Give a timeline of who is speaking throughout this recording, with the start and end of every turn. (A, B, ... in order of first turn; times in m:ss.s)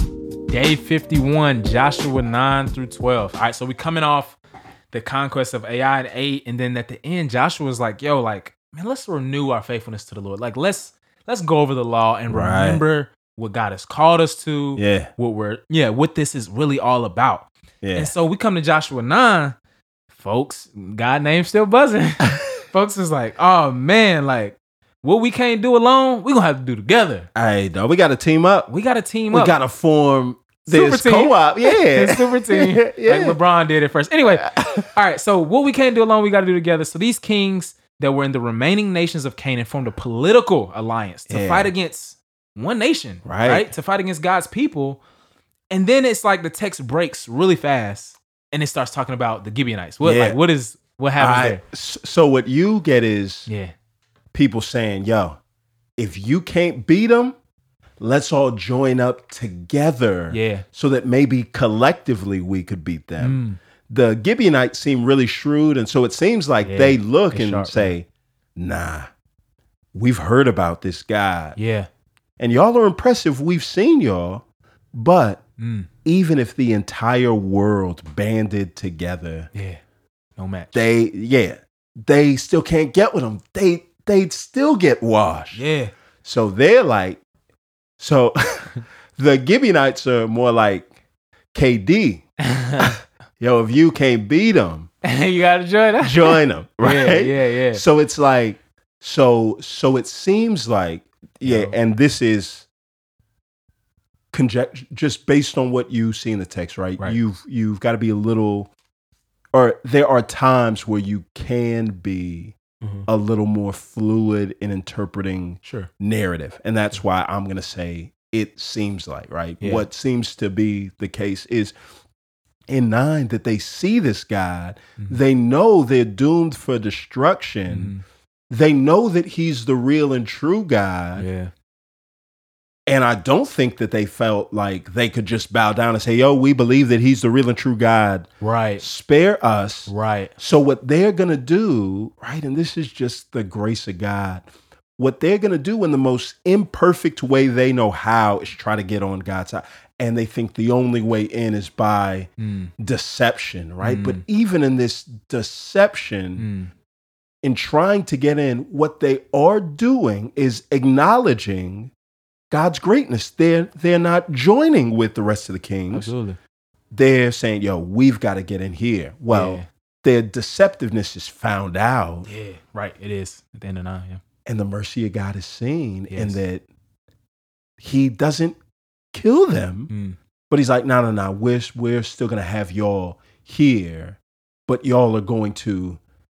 0:00.5-0:04.4 A
0:04.9-0:19.6 A
0:12.3-0:12.8 B
0:14.8-0:15.1 B
0:17.8-0:18.1 B
0:20.1-0:27.3 A
0:27.4-0:28.7 B
0:28.7-0:29.6 A
0:29.3-0:33.4 B
0:30.7-0:45.0 A
0:41.3-0:41.7 B
0:43.2-0:43.7 B
0:45.7-0:51.6 A
0:50.0-0:50.4 B
0:51.2-0:53.5 B
0:53.5-0:53.7 A
0:54.3-0:55.4 B
0:56.0-0:57.4 B
0:58.0-1:09.1 B
1:00.3-1:00.6 A
1:03.2-1:03.6 A
1:06.6-1:07.9 A
1:09.9-1:11.6 B
1:11.6-1:11.9 A
1:12.4-1:15.4 B
1:15.6-1:15.9 A
1:16.0-1:19.5 B
1:19.5-1:19.8 A
1:20.4-1:20.7 A
1:20.7-1:25.6 B
1:25.5-1:25.9 A
1:26.2-1:27.2 B
1:28.0-1:30.9 B
1:31.5-1:32.3 B
1:32.5-1:33.0 A
1:32.8-1:34.9 B
1:35.0-1:37.8 A
1:36.0-1:42.7 B
1:41.4-1:41.8 A
1:44.3-1:48.7 B
1:49.5-1:52.6 B
1:52.8-1:53.1 A
1:53.1-2:01.7 B
1:55.6-1:55.9 A
1:59.6-1:59.9 A
2:02.7-2:07.9 B
2:07.7-2:08.0 A
2:08.5-2:11.3 B
2:11.2-2:11.5 A
2:12.9-2:18.3 B
2:18.4-2:18.8 A
2:18.8-2:24.5 B
2:19.9-2:20.3 A
2:25.0-2:36.5 B
2:32.4-2:32.7 A
2:33.8-2:34.2 A
2:36.4-2:36.7 A
2:37.4-2:41.9 B
2:42.5-2:46.1 B
2:45.9-2:46.4 A
2:46.9-2:52.3 B
2:49.3-2:49.7 A
2:52.3-2:54.2 A
2:54.5-2:56.6 B
2:56.1-2:56.4 A
2:57.8-2:58.6 B
2:59.1-2:59.9 B
2:59.9-3:00.2 A
3:00.5-3:06.0 B